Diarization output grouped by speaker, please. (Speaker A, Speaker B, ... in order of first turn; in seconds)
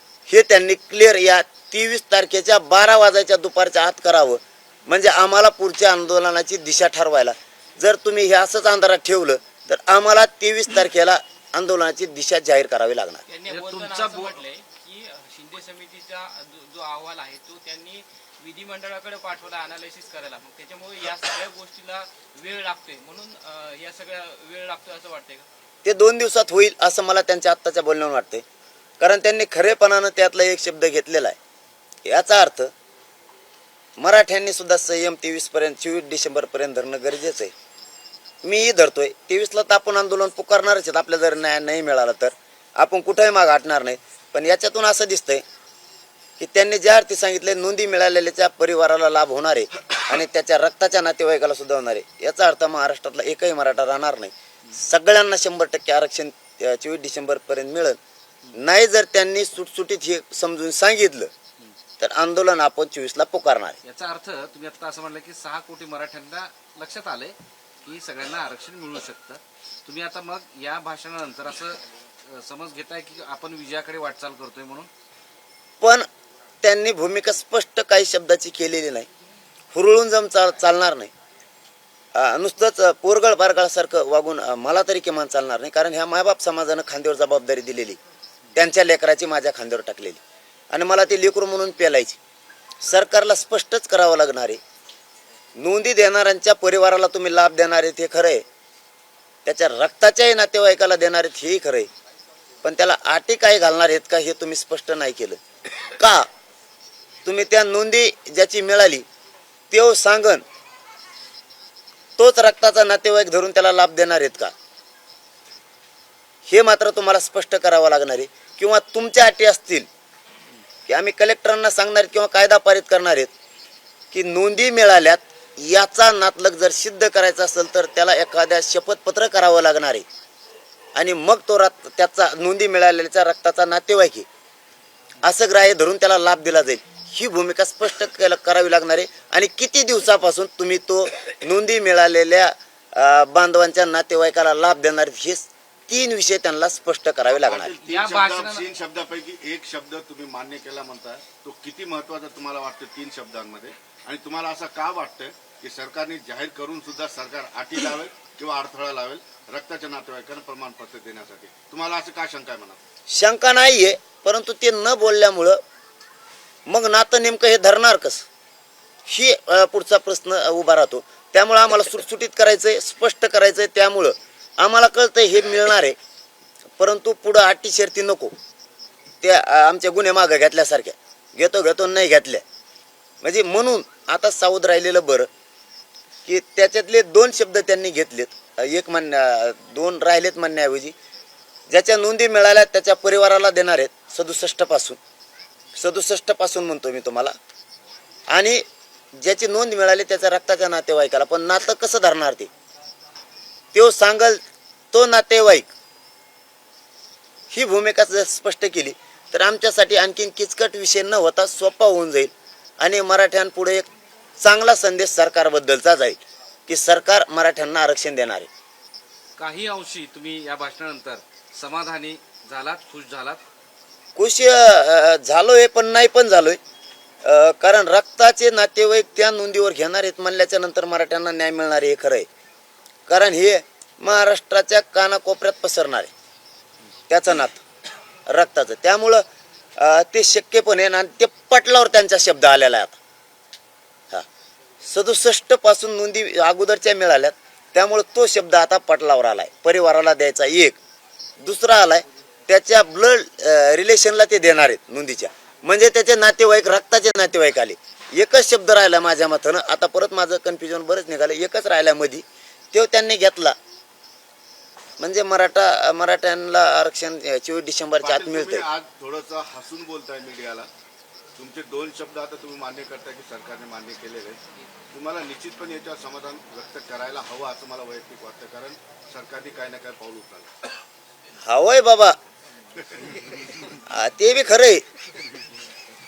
Speaker A: 0.3-13.2, 25.8-28.4, 29.0-31.4, 32.1-32.7, 34.0-37.5, 38.4-45.4, 46.4-58.0, 58.5-61.3, 62.0-63.8, 75.8-76.1, 76.6-79.1, 79.7-81.1, 82.2-88.0, 88.5-90.2, 90.7-92.2, 92.8-94.6, 95.6-98.4, 99.5-101.9, 102.6-106.3, 107.2-109.1, 109.7-110.4, 112.2-114.5, 116.5-119.9, 120.9-123.3, 124.1-130.1, 131.0-134.3, 135.2-147.7, 163.1-165.6, 166.7-168.3, 169.1-176.0, 176.8-178.3, 179.2-182.4, 183.2-185.3, 186.2-190.9, 191.7-195.0, 195.8-197.3, 198.3-198.6, 199.2-202.5, 203.7-205.7, 207.5-213.9, 214.4-218.5, 224.2-226.6, 227.2-232.3, 233.1-236.1, 237.1-237.6, 238.3-239.2, 239.8-243.0, 244.8-250.8, 251.4-263.6, 265.0-268.7, 281.5-282.2, 283.9-284.8
Speaker B: 13.3-25.5, 148.0-148.5
Speaker C: 13.5-14.4, 63.9-74.9, 147.8-148.6, 219.4-223.4
Speaker D: 147.3-162.8, 268.0-270.7, 271.4-274.4, 274.9-280.5